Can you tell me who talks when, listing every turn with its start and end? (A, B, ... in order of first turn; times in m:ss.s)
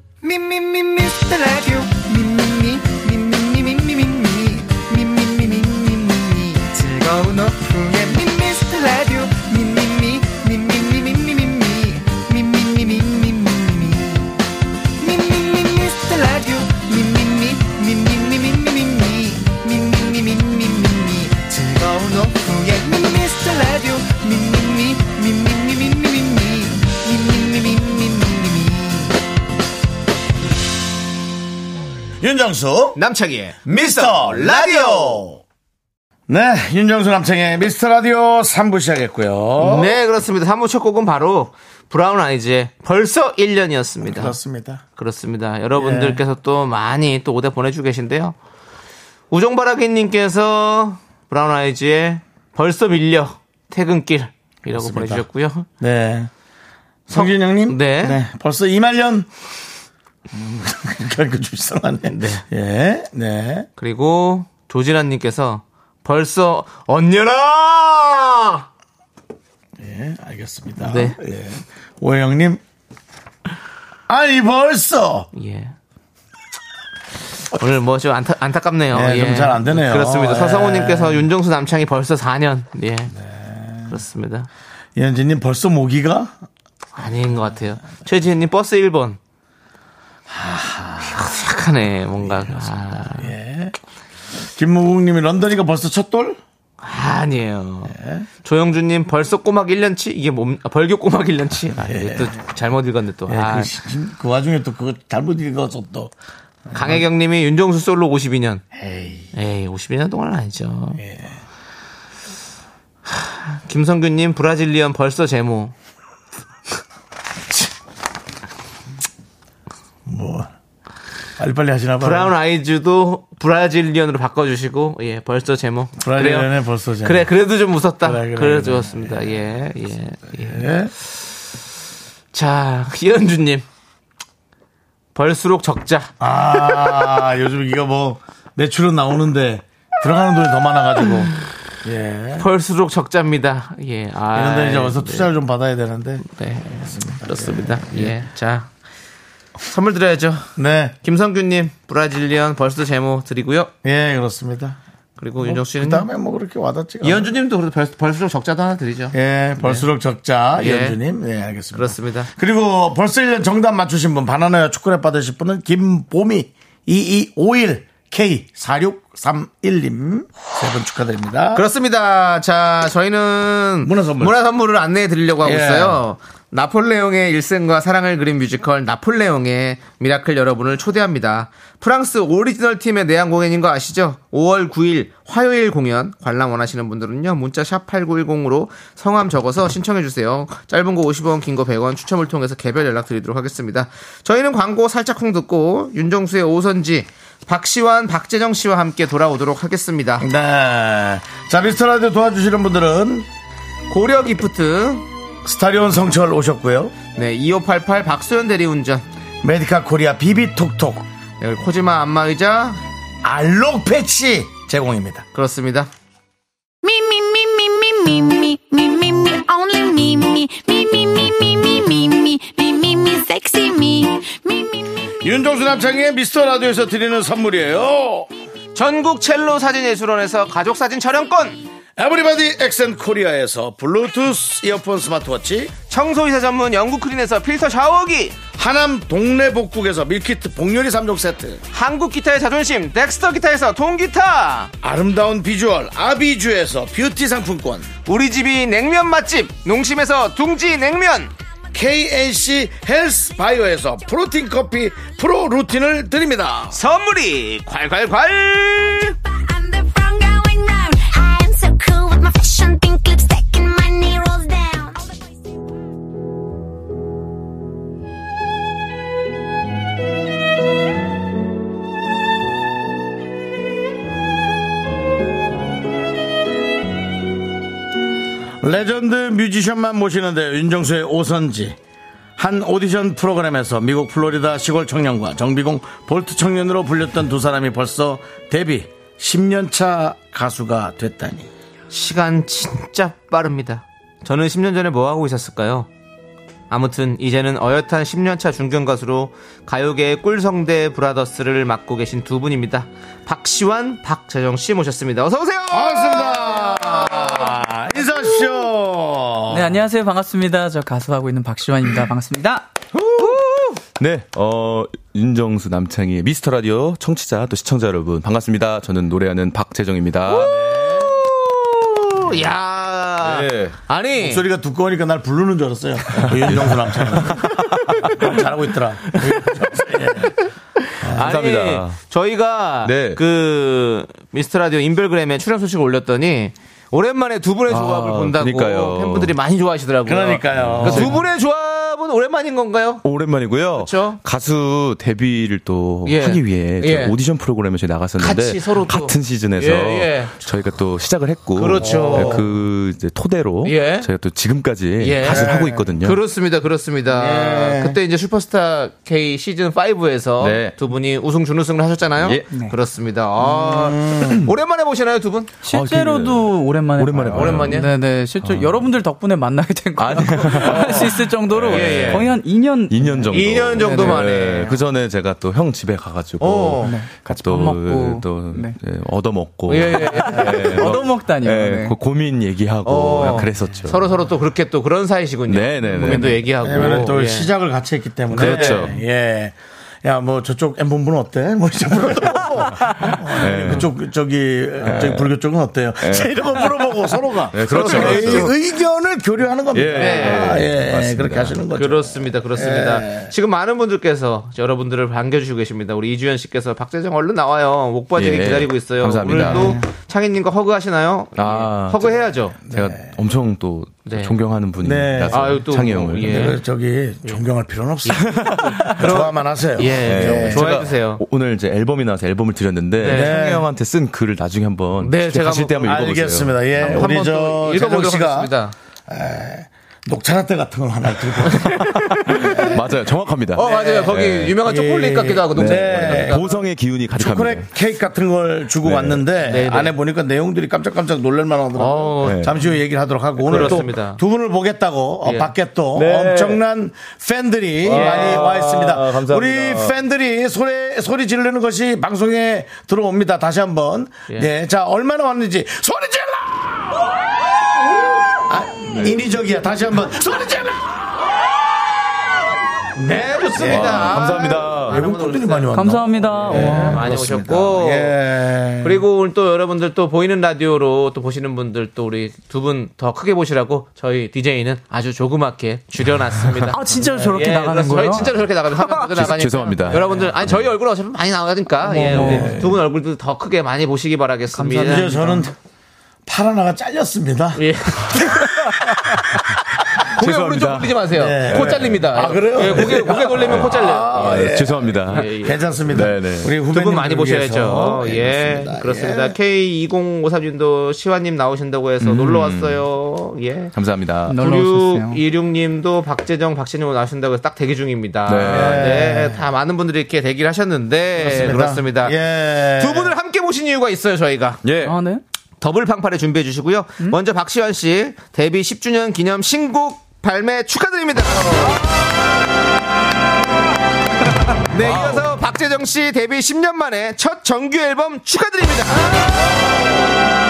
0:00.2-0:14.3 A
0:15.0-0:29.1 A
0:32.2-0:33.0 B
0:33.0-0:35.2 C
0:33.6-0:35.4 B
0:36.3-0:40.0 B
0:39.6-0:44.3 C
0:44.0-0:44.8 B
0:45.0-0:48.4 C
0:45.7-0:46.2 B
0:49.3-0:55.7 C
0:54.7-0:55.2 B
0:55.8-0:56.3 B
0:57.1-0:59.3 B
0:57.1-0:58.2 C
1:00.3-1:03.7 B
1:02.1-1:02.4 C
1:03.8-1:08.6 C
1:09.8-1:12.6 B
1:10.8-1:11.2 C
1:14.1-1:15.3 B
1:15.3-1:15.7 C
1:17.5-1:23.1 C
1:18.9-1:21.3 B
1:23.2-1:23.9 B
1:23.9-1:24.5 C
1:25.0-1:26.3 B
1:27.0-1:29.2 C
1:30.3-1:31.4 B
1:31.1-1:33.3 C
1:32.2-1:33.8 B
1:34.5-1:36.4 B
1:36.8-1:43.7 C
1:37.9-1:38.3 B
1:41.8-1:42.4 B
1:43.3-1:46.1 B
1:46.7-1:47.0 B
1:46.7-1:48.6 C
1:48.7-1:49.3 B
1:49.3-1:51.0 C
1:51.0-1:51.4 B
1:53.1-1:55.7 C
2:00.0-2:00.5 B
2:01.4-2:02.3 B
2:02.0-2:06.5 C
2:06.0-2:07.3 B
2:07.0-2:10.7 C
2:08.0-2:09.4 B
2:10.3-2:10.9 B
2:12.3-2:13.6 C
2:15.1-2:17.2 C
2:16.2-2:22.5 B
2:22.4-2:25.3 C
2:24.3-2:26.2 B
2:26.2-2:28.7 C
2:26.8-2:28.1 B
2:29.6-2:33.7 C
2:30.6-2:31.0 B
2:33.8-2:34.8 B
2:35.2-2:36.1 C
2:35.4-2:37.3 B
2:37.0-2:39.9 C
2:39.1-2:51.6 B
2:40.5-2:41.0 C
2:41.7-2:42.3 C
2:51.5-3:20.3 C
2:53.8-2:54.3 B
2:55.4-2:56.0 B
3:20.2-3:23.3 B
3:23.9-3:25.0 C
3:25.4-3:26.9 B
3:27.1-3:29.0 C
3:29.4-3:31.0 B
3:31.4-3:32.8 C
3:33.2-3:35.2 B
3:35.3-3:35.9 C
3:36.8-3:45.0 D
3:45.2-3:48.3 B
3:48.7-3:51.6 C
3:52.0-3:55.7 B
3:55.9-3:58.4 C
3:58.5-4:01.6 B
4:01.7-4:04.7 C
4:04.8-4:07.9 B
4:08.0-4:11.3 C
4:11.7-4:16.8 B
4:16.7-4:19.1 C
4:19.0-4:25.3 D
4:38.6-4:41.8 B
4:42.4-4:51.5 B
4:51.9-4:55.9 C
4:56.7-5:07.4 C
5:05.7-5:09.7 B
5:09.5-5:12.7 E
5:14.0-5:20.6 F
5:20.3-5:21.1 B
5:20.3-5:24.4 C
5:23.2-5:23.8 F
5:24.2-5:30.3 B
5:26.2-5:28.4 F
5:31.0-5:43.0 C
5:31.1-5:32.0 F
5:32.8-5:33.2 F
5:37.7-5:39.3 F
5:40.0-5:41.2 B
5:40.5-5:41.2 F
5:43.0-5:56.2 F
5:43.7-5:44.2 C
5:46.0-5:47.1 C
5:48.2-5:50.5 C
5:51.5-5:52.4 C
5:51.8-5:52.4 B
5:53.6-5:54.1 C
5:55.0-6:05.5 C
5:55.2-5:55.9 B
5:57.1-5:58.0 B
6:00.4-6:00.8 F
6:02.2-6:02.5 F
6:03.4-6:04.5 B
6:05.6-6:14.3 E
6:05.6-6:07.9 F
6:07.3-6:07.9 C
6:08.4-6:08.9 F
6:10.0-6:24.3 F
6:10.7-6:11.1 C
6:11.6-6:12.3 C
6:13.3-6:14.8 C
6:16.4-6:16.9 C
6:16.8-6:18.8 E
6:19.7-6:20.9 C
6:20.0-6:21.9 E
6:22.8-6:27.5 C
6:25.5-6:27.1 F
6:26.0-6:26.4 E
6:26.6-6:43.3 B
6:28.3-6:29.0 F
6:28.3-6:28.9 C
6:33.4-6:33.9 F
6:34.8-6:35.3 F
6:36.0-6:36.8 F
6:37.5-6:38.5 F
6:37.7-6:38.2 C
6:39.7-6:41.6 F
6:39.9-6:40.6 C
6:41.7-6:52.6 C
6:48.2-6:49.8 F
6:51.4-6:56.5 F
6:52.7-6:53.2 B
6:54.0-6:54.3 C
6:54.8-7:00.7 B
6:55.3-6:56.6 C
6:58.0-7:01.2 C
6:58.2-6:58.9 F
7:00.0-7:07.1 F
7:03.0-7:03.6 C
7:03.0-7:03.6 B
7:05.0-7:06.1 C
7:05.8-7:08.5 B
7:06.8-7:08.7 C
7:09.1-7:12.8 B
7:11.4-7:12.7 C
7:12.0-7:14.6 F
7:13.5-7:16.5 C
7:13.6-7:14.0 B
7:14.6-7:16.6 B
7:15.5-7:17.7 F
7:17.1-7:36.9 B
7:18.8-7:19.2 F
7:19.4-7:19.9 C
7:21.8-7:22.6 C
7:22.2-7:22.5 F
7:23.4-7:24.2 C
7:23.4-7:23.9 F
7:25.2-7:25.5 C
7:25.9-7:26.6 F
7:27.8-7:30.0 F
7:27.9-7:28.5 C
7:38.4-7:41.1 B
7:43.0-7:49.0 B
7:43.0-7:45.8 C
7:43.6-7:45.0 F
7:45.7-7:47.1 E
7:46.4-7:48.2 C
7:48.8-8:05.2 C
7:56.7-7:59.1 E
7:57.1-7:57.4 B
7:59.1-8:00.6 F
8:01.8-8:02.6 E
8:02.0-8:02.7 B
8:04.5-8:05.5 E
8:04.8-8:05.5 B
8:06.2-8:09.5 B
8:07.5-8:08.4 C
8:10.0-8:16.5 F
8:10.1-8:15.8 C
8:11.1-8:19.4 B
8:16.7-8:23.7 C
8:22.0-8:22.8 F
8:23.7-8:24.4 F
8:24.3-8:25.2 E
8:24.4-8:32.2 C
8:28.2-8:29.0 F
8:28.5-8:29.4 B
8:31.2-8:33.1 B
8:32.8-8:34.6 C
8:34.6-8:35.0 F
8:34.8-8:35.2 E
8:35.6-8:41.8 C
8:44.7-8:49.6 C
8:44.8-8:45.3 F